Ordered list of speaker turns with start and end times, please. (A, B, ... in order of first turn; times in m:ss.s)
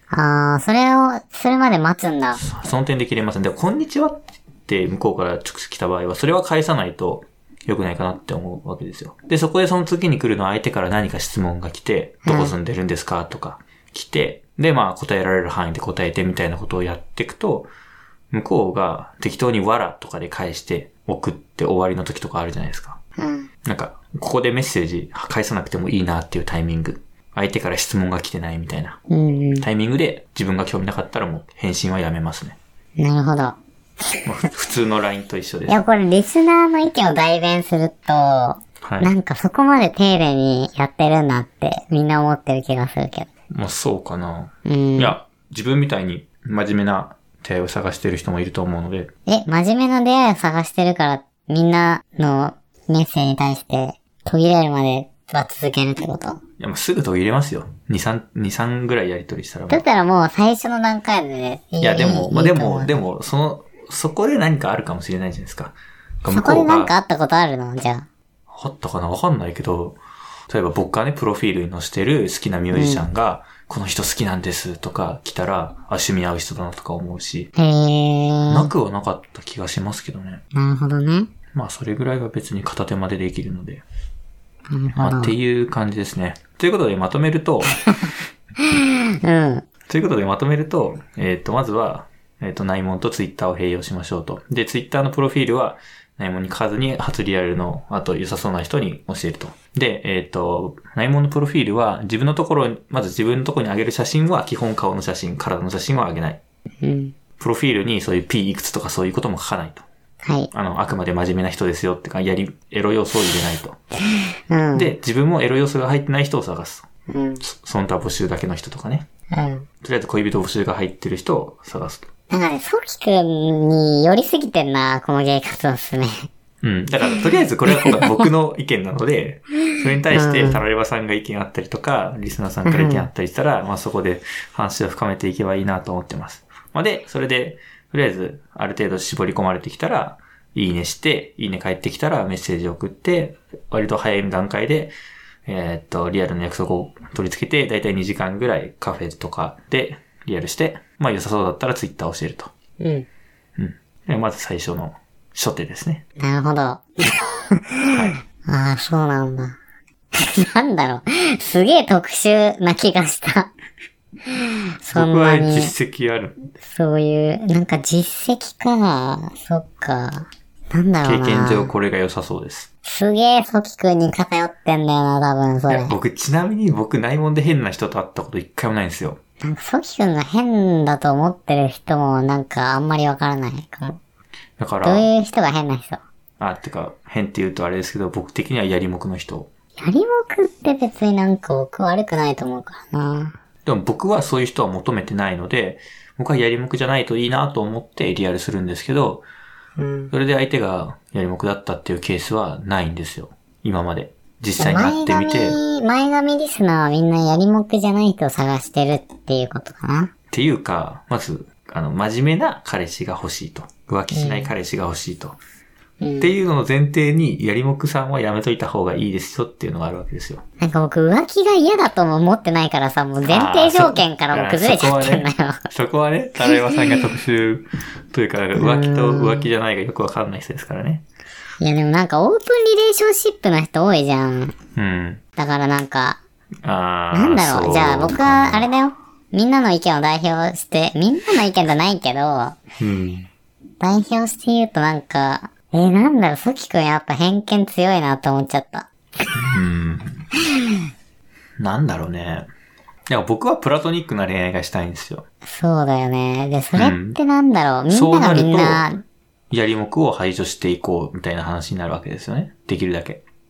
0:00.1-0:02.4 A
0:02.4-0:17.7 B
0:12.2-0:12.5 A
0:18.3-0:23.0 B
0:23.2-0:23.5 A
0:23.6-0:29.0 B
0:29.1-0:29.7 A
0:29.6-0:32.6 B
0:33.0-0:33.6 A
0:34.2-0:35.8 B
0:35.7-0:43.3 A
0:38.8-0:39.1 B
0:43.5-0:49.1 B
0:44.7-0:45.2 A
0:49.3-0:56.4 A
0:56.6-0:59.8 B
0:59.7-1:03.0 A
1:01.8-1:06.9 B
1:06.3-1:08.1 A
1:08.5-1:10.0 B
1:10.5-1:17.5 B
1:12.7-1:13.0 A
1:17.6-1:18.7 A
1:18.5-1:20.4 B
1:20.5-1:21.3 A
1:21.5-1:23.8 B
1:24.7-1:25.3 A
1:25.0-1:27.7 B
1:27.9-1:29.7 A
1:29.9-1:46.4 B
1:46.8-1:47.2 A
1:47.4-1:49.8 B
1:50.2-1:50.5 A
1:50.5-1:53.8 B
1:54.5-1:54.9 A
1:54.7-1:56.9 B
1:57.1-1:57.4 A
1:57.4-1:59.1 B
1:59.3-1:59.7 A
1:59.8-2:02.1 B
2:02.3-2:06.3 A
2:06.6-2:24.9 B
2:07.7-2:08.2 A
2:10.1-2:10.6 A
2:12.6-2:13.1 A
2:25.5-2:32.5 B
2:32.8-2:33.1 A
2:33.6-2:36.0 B
2:36.2-2:39.6 A
2:37.9-2:38.2 B
2:40.1-2:43.5 A
2:44.3-2:45.7 A
2:44.9-2:46.5 B
2:46.6-2:51.7 A
2:51.0-2:52.7 B
2:52.8-2:55.9 A
2:55.7-2:59.2 B
2:59.4-3:04.0 A
3:04.6-3:05.1 B
3:04.8-3:06.0 A
3:06.4-3:09.5 B
3:09.8-3:13.4 A
3:13.6-3:19.2 B
3:19.8-3:20.1 A
3:20.1-3:25.6 B
3:24.6-3:30.1 A
3:30.3-3:35.4 B
3:34.1-3:34.5 A
3:36.0-3:36.3 A
3:36.2-3:40.4 B
3:40.6-3:45.7 A
3:43.2-3:51.0 B
3:46.5-3:47.0 A
3:48.6-3:49.5 A
3:51.6-3:54.6 A
3:54.8-3:55.2 B
3:55.4-3:56.2 A
3:56.6-3:58.7 B
3:57.1-4:02.6 A
4:02.8-4:03.3 B
4:03.8-4:08.9 A
4:09.3-4:10.3 B
4:11.6-4:12.5 B
4:13.1-4:15.3 B
4:15.5-4:19.0 A
4:16.8-4:17.2 B
4:17.9-4:18.9 B
4:19.5-4:23.2 B